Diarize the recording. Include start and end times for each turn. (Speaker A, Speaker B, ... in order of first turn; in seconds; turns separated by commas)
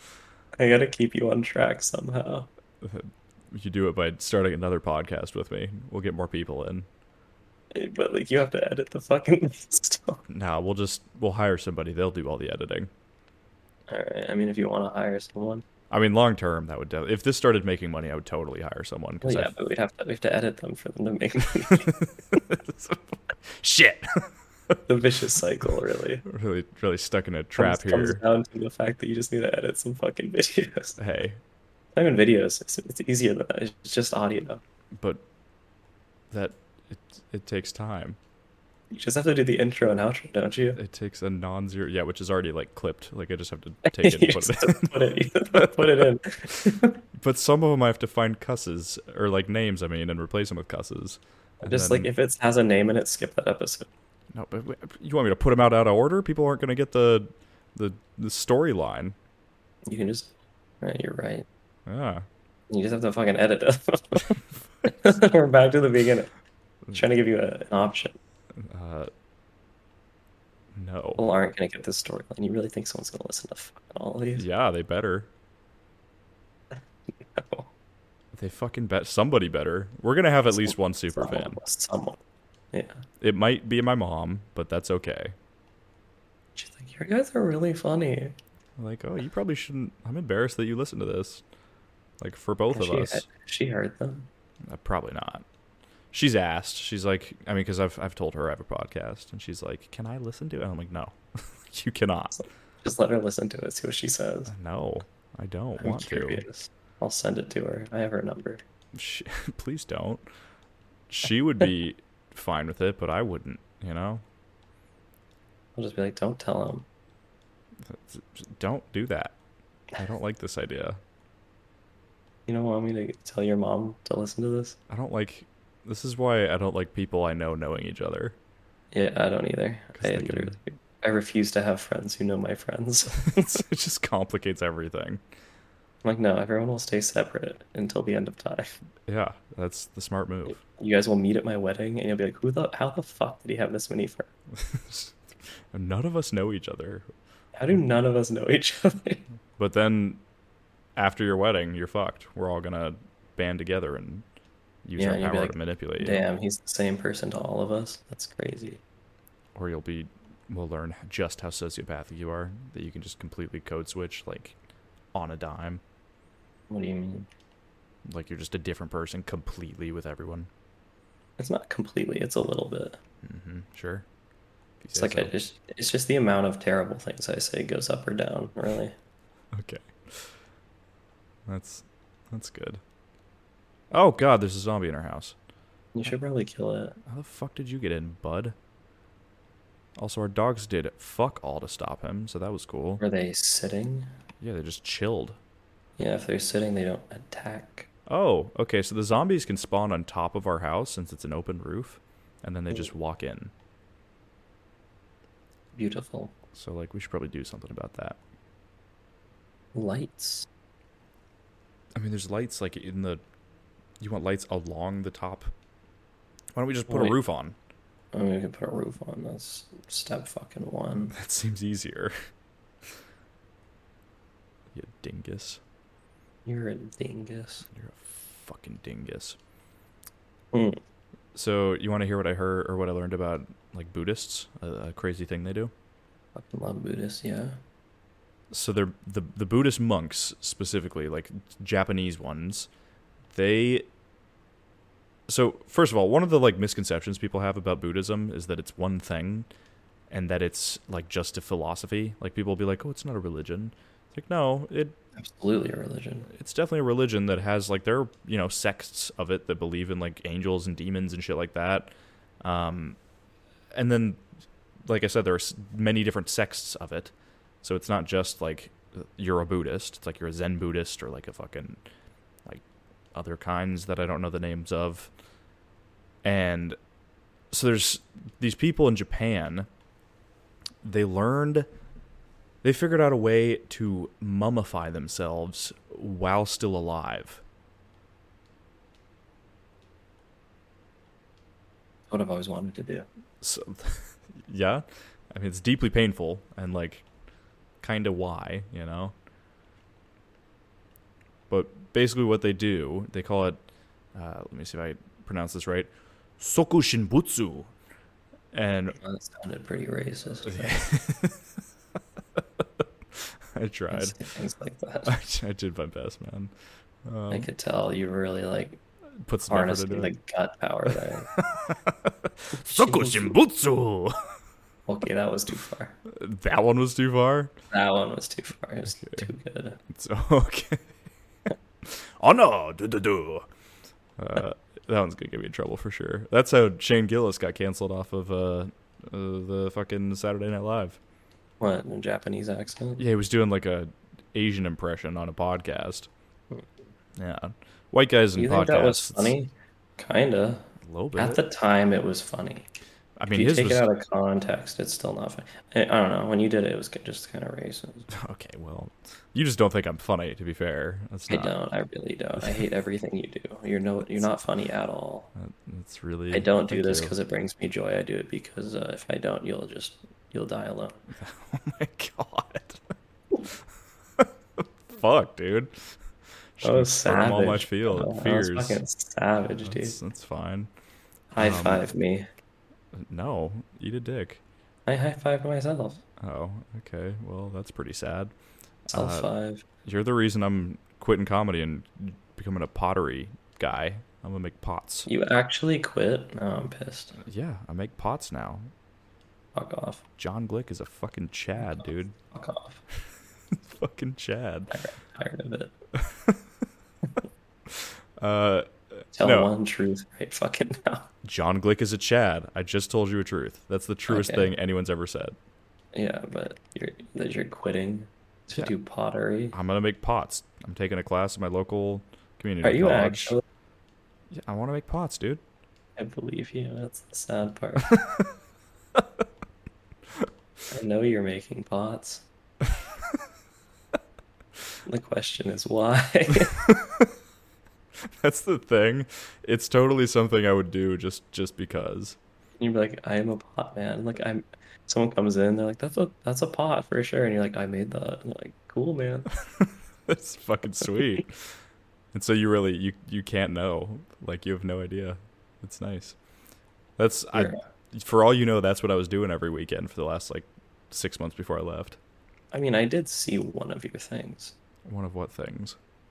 Speaker A: 0.6-2.5, Speaker B: 2.8-6.9, Speaker A: 7.7-10.2, Speaker B: 10.3-12.9, Speaker A: 13.9-15.6, Speaker B: 15.9-19.5, Speaker A: 19.2-21.9, Speaker B: 21.7-24.8, Speaker A: 24.9-26.2, Speaker B: 26.2-28.2, Speaker A: 27.6-31.0, Speaker B: 31.0-31.4, Speaker A: 31.9-34.6, Speaker B: 35.0-35.2, Speaker B: 36.3-38.2, Speaker A: 38.9-40.8, Speaker B: 40.7-44.9, Speaker A: 43.9-47.0, Speaker B: 45.5-46.0, Speaker B: 47.2-52.1, Speaker A: 51.6-53.9, Speaker B: 54.3-59.1, Speaker A: 59.9-61.5, Speaker B: 61.9-62.2, Speaker A: 62.7-66.3, Speaker A: 66.9-68.2, Speaker B: 68.6-69.1, Speaker B: 70.7-71.2, Speaker A: 71.2-74.4, Speaker B: 74.3-75.3, Speaker A: 77.2-77.7, Speaker B: 78.3-81.6, Speaker A: 80.5-82.2, Speaker A: 82.7-83.0, Speaker B: 83.2-85.3, Speaker A: 86.5-88.3, Speaker B: 88.8-91.4, Speaker B: 92.2-93.2, Speaker A: 92.7-94.3, Speaker B: 94.7-95.4, Speaker B: 96.1-102.4, Speaker A: 102.4-104.5, Speaker B: 104.5-106.4, Speaker A: 105.8-108.6, Speaker B: 108.9-110.2, Speaker B: 111.1-114.2, Speaker A: 115.7-116.8, Speaker B: 117.8-119.3, Speaker B: 120.0-121.0, Speaker A: 122.5-124.8, Speaker B: 124.9-128.3, Speaker A: 128.9-133.6, Speaker B: 129.9-130.6, Speaker B: 133.2-135.2, Speaker A: 136.0-138.7, Speaker B: 139.1-140.6, Speaker A: 140.6-144.3, Speaker B: 144.5-147.1, Speaker A: 147.5-149.2, Speaker B: 149.6-150.2, Speaker B: 151.0-154.2, Speaker B: 154.8-156.2, Speaker A: 155.0-158.8, Speaker B: 159.5-164.6, Speaker B: 165.1-165.8, Speaker A: 166.7-167.3, Speaker B: 168.0-170.5, Speaker A: 171.4-173.0, Speaker B: 173.2-174.1, Speaker B: 174.8-175.3, Speaker A: 174.9-178.9, Speaker B: 179.5-180.3, Speaker B: 181.5-182.8, Speaker B: 183.9-185.3, Speaker A: 185.9-186.9, Speaker B: 187.1-188.5, Speaker B: 190.0-193.0, Speaker A: 193.0-194.1, Speaker B: 194.4-195.4, Speaker A: 196.0-197.9, Speaker B: 198.1-203.5, Speaker A: 205.7-206.3, Speaker B: 206.5-208.2, Speaker A: 209.7-210.5, Speaker B: 211.9-213.2, Speaker B: 214.0-215.5, Speaker B: 216.6-217.5, Speaker A: 216.9-217.2, Speaker A: 218.1-221.1, Speaker B: 221.1-222.1, Speaker B: 224.7-225.6, Speaker A: 226.4-227.7, Speaker B: 227.7-229.4, Speaker A: 230.5-230.8, Speaker B: 231.3-235.7, Speaker A: 236.3-237.6, Speaker B: 238.5-242.7, Speaker B: 243.3-243.9, Speaker B: 245.3-249.5, Speaker B: 250.1-255.0, Speaker A: 255.2-256.3, Speaker B: 256.3-261.9, Speaker B: 262.4-263.0, Speaker B: 263.7-264.2, Speaker B: 264.9-271.8, Speaker B: 273.1-275.1, Speaker B: 276.2-276.8, Speaker B: 277.5-279.7, Speaker B: 280.8-281.7, Speaker B: 282.6-287.4, Speaker A: 292.1-293.1, Speaker B: 293.4-297.0, Speaker B: 297.8-299.1, Speaker B: 301.5-303.6, Speaker B: 304.1-307.7, Speaker B: 308.5-309.0, Speaker A: 309.0-310.7, Speaker B: 310.4-311.4, Speaker B: 313.1-314.2, Speaker A: 313.9-315.1, Speaker B: 315.1-316.5, Speaker B: 317.1-317.5, Speaker A: 317.3-318.8, Speaker B: 319.2-320.1, Speaker A: 319.5-321.3, Speaker B: 321.4-324.2, Speaker A: 322.7-323.3, Speaker A: 324.9-325.9, Speaker B: 326.1-327.5, Speaker A: 327.7-329.8, Speaker B: 328.9-329.3, Speaker B: 329.9-330.9, Speaker B: 331.8-333.4, Speaker B: 334.2-341.0, Speaker A: 341.6-343.0, Speaker B: 343.0-346.1, Speaker B: 347.2-349.3, Speaker A: 348.4-352.7, Speaker B: 350.8-351.4, Speaker B: 353.2-353.9, Speaker A: 353.3-358.1, Speaker B: 358.1-361.5, Speaker A: 361.3-365.3, Speaker B: 365.4-367.1, Speaker A: 366.3-371.0, Speaker B: 371.1-372.9, Speaker B: 374.2-375.7, Speaker B: 376.6-378.8, Speaker A: 376.6-380.0, Speaker B: 379.6-380.7, Speaker A: 381.3-382.3, Speaker B: 381.4-381.9, Speaker B: 382.9-384.4, Speaker A: 384.9-386.0, Speaker B: 386.2-388.3, Speaker B: 388.9-389.3, Speaker A: 388.9-389.6, Speaker B: 389.8-395.1, Speaker A: 395.1-397.2, Speaker B: 397.2-398.7, Speaker A: 399.5-400.0, Speaker B: 400.2-402.2, Speaker A: 402.3-402.8, Speaker B: 403.5-404.8, Speaker A: 404.7-405.7, Speaker B: 405.9-406.4, Speaker B: 407.7-409.5, Speaker A: 409.1-411.1, Speaker B: 411.2-415.4, Speaker A: 414.1-414.5, Speaker A: 415.9-419.5, Speaker B: 419.5-423.4, Speaker A: 422.6-423.4, Speaker B: 424.3-425.4, Speaker A: 426.0-427.9, Speaker B: 427.9-428.2, Speaker A: 430.7-432.2, Speaker A: 434.9-436.6, Speaker B: 436.6-437.1, Speaker B: 438.1-442.2, Speaker A: 442.6-449.3, Speaker B: 449.5-451.5, Speaker B: 452.1-456.1, Speaker B: 457.0-462.0, Speaker A: 457.3-457.6, Speaker A: 462.5-464.6, Speaker B: 464.9-465.8